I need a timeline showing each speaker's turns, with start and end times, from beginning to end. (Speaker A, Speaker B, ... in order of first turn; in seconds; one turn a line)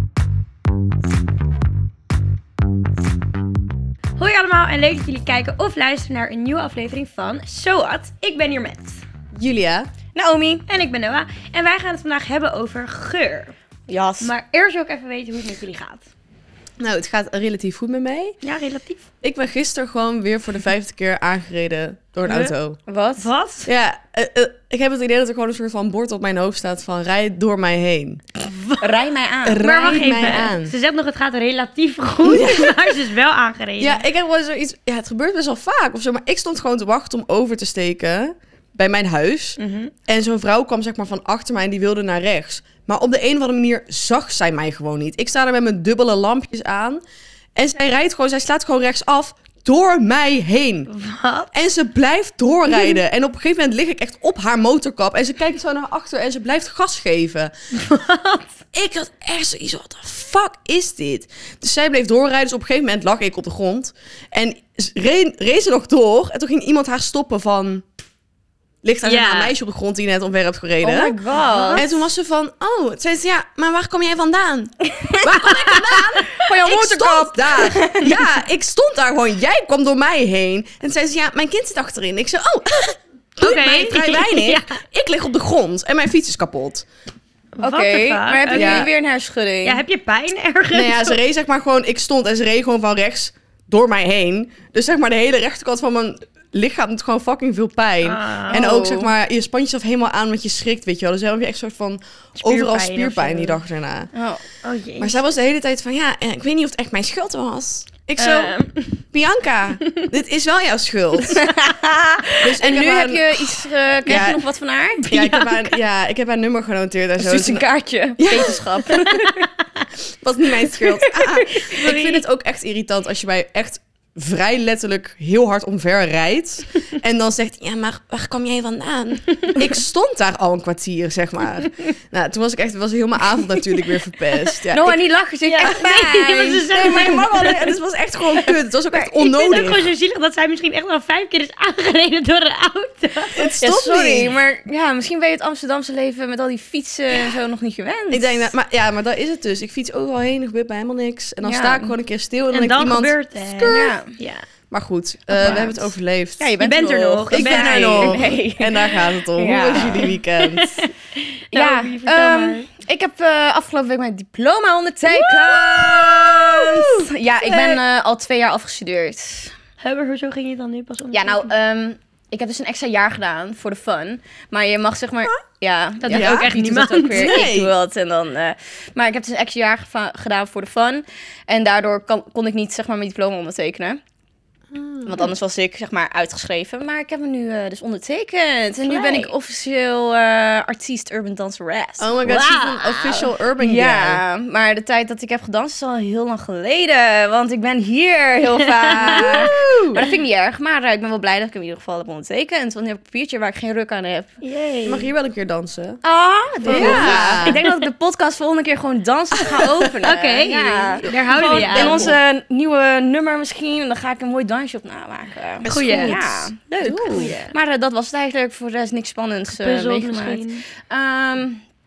Speaker A: 4.2-9.0
Speaker B: 9.3-9.9
Speaker C: 10.2-10.7
Speaker A: 10.7-13.5
Speaker C: 13.9-14.3
Speaker A: 14.2-16.0
Speaker B: 16.8-18.4
Speaker A: 18.4-19.0
Speaker B: 19.2-22.8
Speaker A: 22.3-22.5
Speaker C: 22.9-23.3
Speaker A: 23.2-23.7
Speaker B: 23.7-28.2
Speaker A: 28.4-28.9
Speaker C: 28.8-30.1
Speaker B: 29.4-30.7
Speaker A: 29.6-34.0
Speaker B: 32.2-33.0
Speaker B: 33.8-47.0
Speaker A: 39.6-39.9
Speaker B: 47.6-50.9
Speaker A: 50.9-51.5
Speaker B: 51.5-57.5
Speaker A: 57.7-58.5
Speaker B: 58.7-67.9
Speaker B: 68.8-71.2
Speaker A: 69.0-69.5
Speaker C: 70.8-71.9
Speaker A: 71.3-71.9
Speaker B: 71.8-86.9
Speaker C: 74.9-75.5
Speaker A: 75.6-76.0
Speaker C: 76.4-78.3
Speaker A: 83.4-84.8
Speaker A: 87.6-88.9
Speaker C: 87.6-89.8
Speaker B: 88.5-88.9
Speaker A: 89.6-91.2
Speaker B: 90.7-104.1
Speaker A: 98.0-98.6
Speaker C: 98.5-99.1
Speaker A: 102.4-103.6
Speaker C: 104.1-104.5
Speaker A: 104.6-105.2
Speaker B: 105.0-108.5
Speaker A: 108.2-109.0
Speaker B: 109.1-111.5
Speaker C: 111.2-115.0
Speaker B: 112.4-114.4
Speaker A: 115.0-115.8
Speaker B: 115.1-119.0
Speaker C: 117.2-119.5
Speaker B: 120.2-135.0
Speaker C: 120.8-121.7
Speaker A: 121.7-122.2
Speaker C: 134.7-137.2
Speaker A: 135.5-137.8
Speaker B: 136.7-139.9
Speaker A: 138.4-143.5
Speaker B: 143.3-144.3
Speaker C: 143.6-148.5
Speaker B: 148.1-153.9
Speaker C: 151.4-151.9
Speaker A: 152.5-154.4
Speaker C: 153.7-154.2
Speaker B: 154.7-156.5
Speaker A: 155.4-155.7
Speaker C: 155.4-155.8
Speaker C: 156.4-160.2
Speaker A: 156.6-158.2
Speaker B: 157.3-160.8
Speaker A: 159.8-162.7
Speaker C: 161.5-169.5
Speaker B: 165.1-167.8
Speaker A: 169.8-171.5
Speaker C: 171.1-184.0
Speaker A: 176.0-177.5
Speaker B: 176.1-176.5
Speaker B: 177.1-177.7
Speaker B: 184.7-185.3
Speaker C: 185.1-204.3
Speaker A: 188.9-189.3
Speaker B: 192.0-194.2
Speaker A: 192.3-192.7
Speaker A: 199.0-199.5
Speaker B: 199.1-200.0
Speaker A: 204.4-205.1
Speaker B: 204.8-206.0
Speaker C: 206.0-221.6
Speaker B: 206.6-207.6
Speaker A: 206.7-207.6
Speaker B: 209.4-209.9
Speaker A: 210.0-212.1
Speaker B: 211.1-212.2
Speaker B: 215.6-217.3
Speaker A: 215.7-216.2
Speaker A: 217.1-217.5
Speaker A: 219.6-220.6